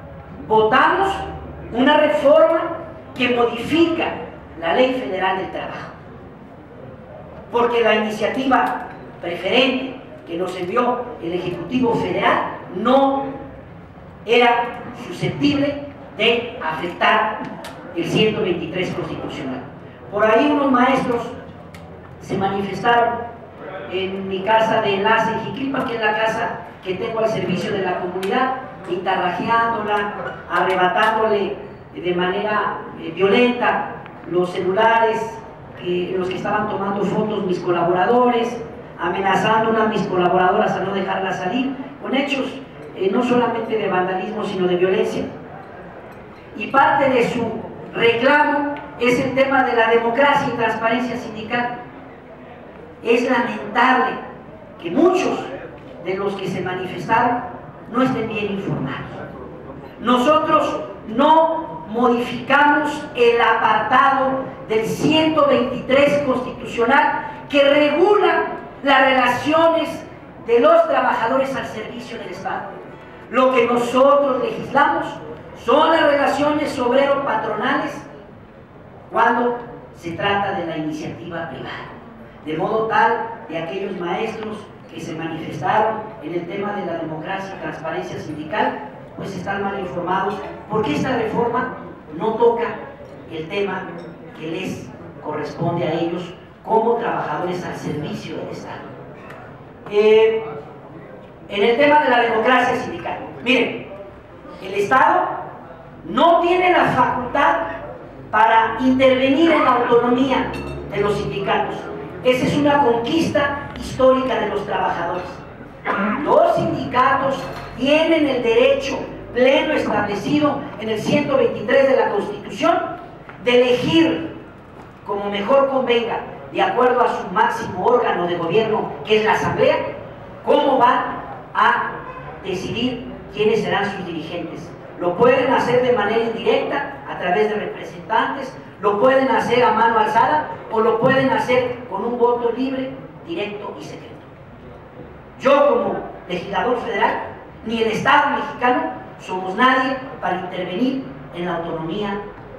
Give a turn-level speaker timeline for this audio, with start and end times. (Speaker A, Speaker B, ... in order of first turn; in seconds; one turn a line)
Speaker A: 0.4-5.9
Speaker A: 7.5-13.3
Speaker A: 14.2-17.4
Speaker A: 17.9-21.4
Speaker A: 22.2-23.2
Speaker A: 23.9-45.3
Speaker A: 46.5-51.8
Speaker A: 53.0-54.2
Speaker A: 54.8-55.5
Speaker A: 56.0-59.2
Speaker A: 60.0-72.7
Speaker A: 73.3-78.1
Speaker A: 79.1-81.9
Speaker A: 82.4-92.8
Speaker A: 93.3-98.9
Speaker A: 99.9-100.4
Speaker A: 101.5-103.9
Speaker A: 104.6-105.4
Speaker A: 106.0-107.7
Speaker A: 108.3-115.4
Speaker A: 116.1-122.8
Speaker A: 123.4-124.3
Speaker A: 125.0-129.8
Speaker A: 130.4-144.3
Speaker A: 145.4-152.2